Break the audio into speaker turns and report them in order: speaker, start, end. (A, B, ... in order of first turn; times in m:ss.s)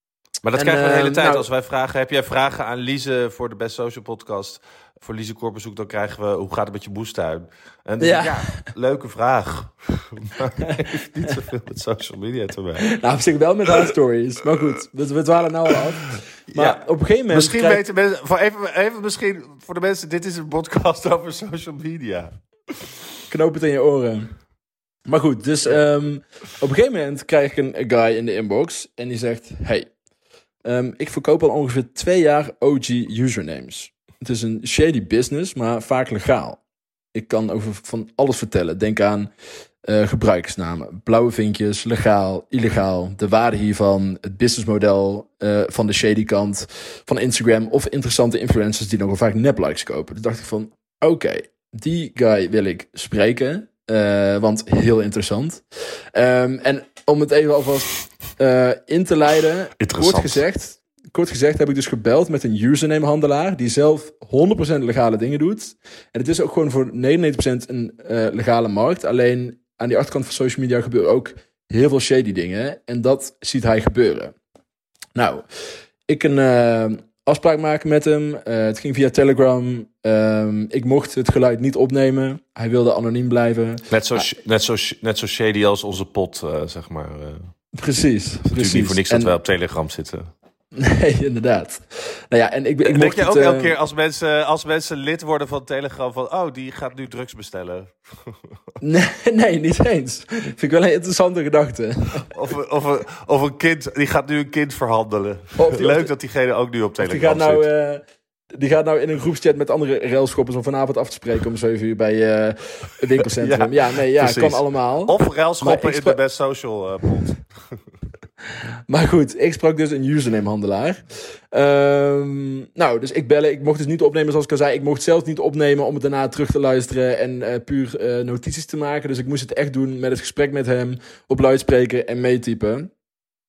0:00.4-0:12.9 A
0:00.6-0:01.5 B
0:08.0-0:08.6 B
0:12.9-0:17.8 B
0:16.5-0:22.3 A
0:23.3-0:24.3 B
0:25.1-0:29.9 B
0:30.6-0:36.6 B
0:37.1-0:39.3 B
0:39.8-0:55.6 B
0:56.1-1:14.3 B
0:59.8-1:00.4 A
1:15.2-1:15.4 B
1:16.1-1:24.3 B
1:23.9-1:27.5 A
1:27.7-1:29.3 B
1:28.5-1:30.3 A
1:30.8-1:33.7 B
1:32.8-1:38.6 A
1:38.8-1:42.3 B
1:42.3-1:47.6 A
1:45.6-1:46.1 B
1:47.0-1:48.0 B
1:48.6-1:56.2 B
1:53.2-1:57.8 A
1:58.9-2:12.9 B